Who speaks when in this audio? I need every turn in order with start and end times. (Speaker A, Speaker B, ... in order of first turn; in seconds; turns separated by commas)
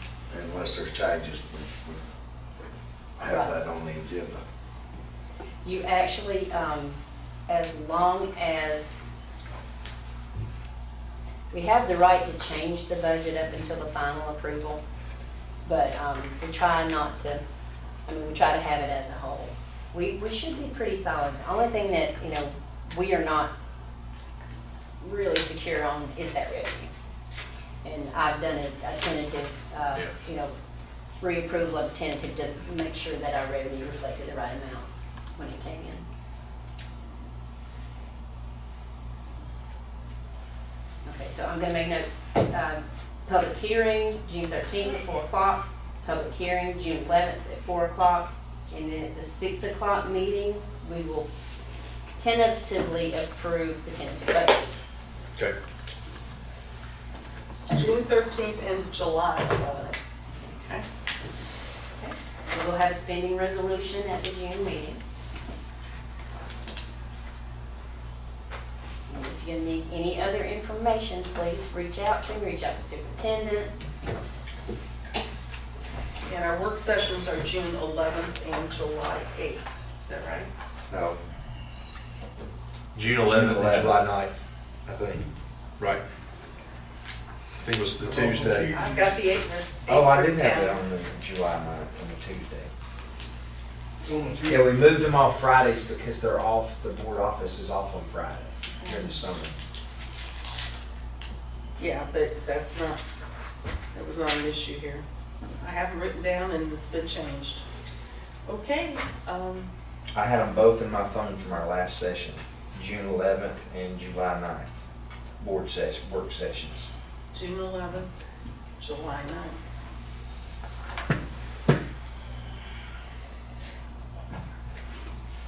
Speaker A: 0.3-2.0, Speaker A: 3.2-4.4, Speaker B: 3.2-3.5, Speaker B: 5.6-9.0, Speaker B: 11.5-14.8, Speaker B: 15.6-17.4, Speaker B: 18.1-23.5, Speaker B: 25.0-26.9, Speaker B: 27.8-30.5, Speaker B: 31.2-36.0, Speaker B: 41.0-51.3, Speaker B: 52.2-54.6, Speaker C: 57.7-60.8, Speaker B: 62.0-65.0, Speaker B: 69.1-73.7, Speaker C: 76.2-80.5, Speaker A: 80.9-81.2, Speaker D: 82.9-84.3, Speaker E: 83.2-84.0, Speaker D: 84.8-85.3, Speaker D: 87.6-88.8, Speaker C: 88.1-90.8, Speaker E: 89.9-92.7, Speaker E: 94.4-99.5, Speaker C: 101.8-103.0, Speaker C: 103.9-105.0, Speaker C: 105.6-107.6, Speaker C: 108.5-109.7, Speaker E: 110.1-114.8, Speaker E: 115.4-116.9, Speaker C: 117.3-118.1, Speaker C: 118.8-119.6